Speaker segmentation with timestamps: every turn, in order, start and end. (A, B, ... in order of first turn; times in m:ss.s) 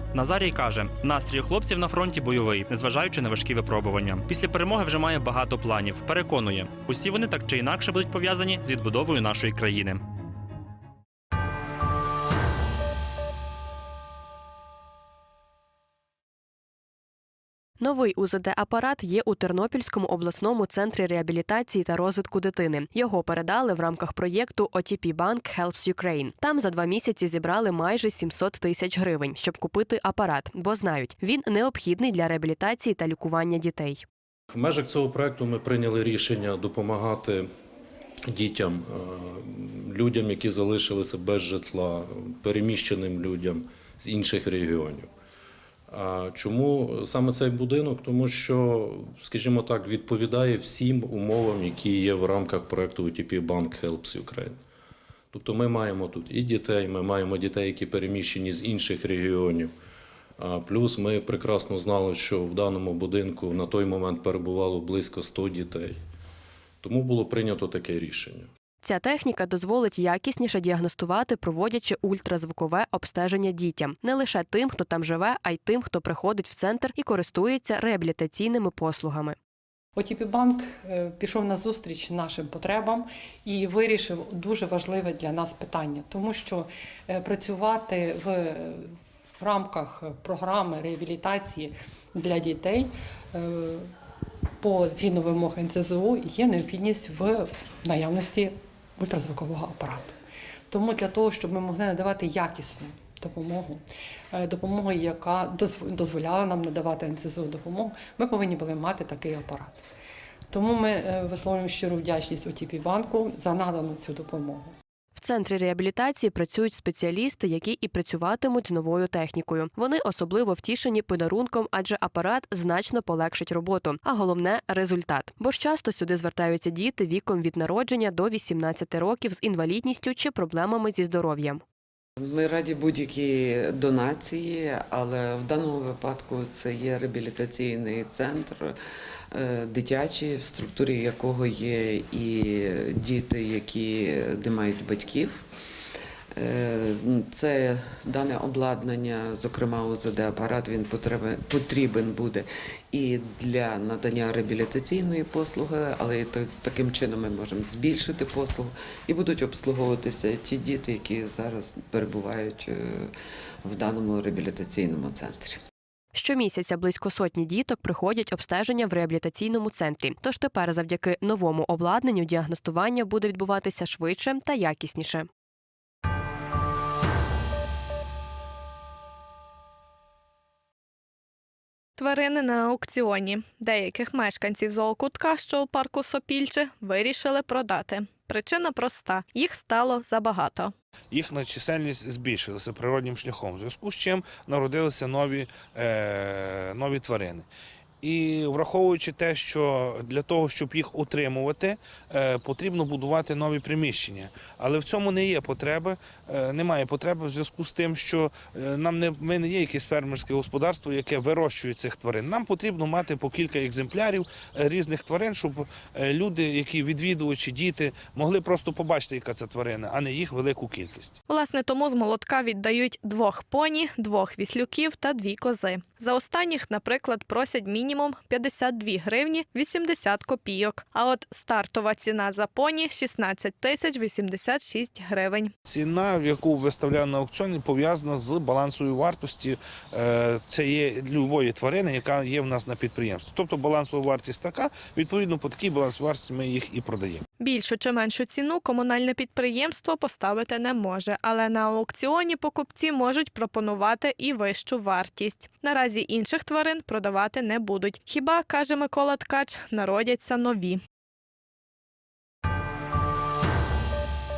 0:00.1-0:10.0 A
0:17.8-0:34.0 B
0:34.5-0:37.5 C
0:38.3-0:45.1 C
0:45.9-0:54.6 C
0:55.3-0:59.7 C
1:00.4-1:06.0 C
1:06.8-1:08.5 C
1:08.8-1:19.4 B
1:20.0-1:33.9 D
1:34.6-1:40.2 D
1:40.7-1:49.8 D
1:50.5-1:54.7 D
1:55.1-2:11.6 B
2:12.2-2:18.7 E
2:19.3-2:25.4 E
2:26.4-2:43.1 E
2:43.6-2:45.6 E
2:46.1-2:55.3 B
3:02.0-3:10.7 F
3:11.1-3:17.5 G
3:18.0-3:41.2 G
3:41.3-3:55.5 F
3:55.6-4:07.2 G
4:07.4-4:20.8 F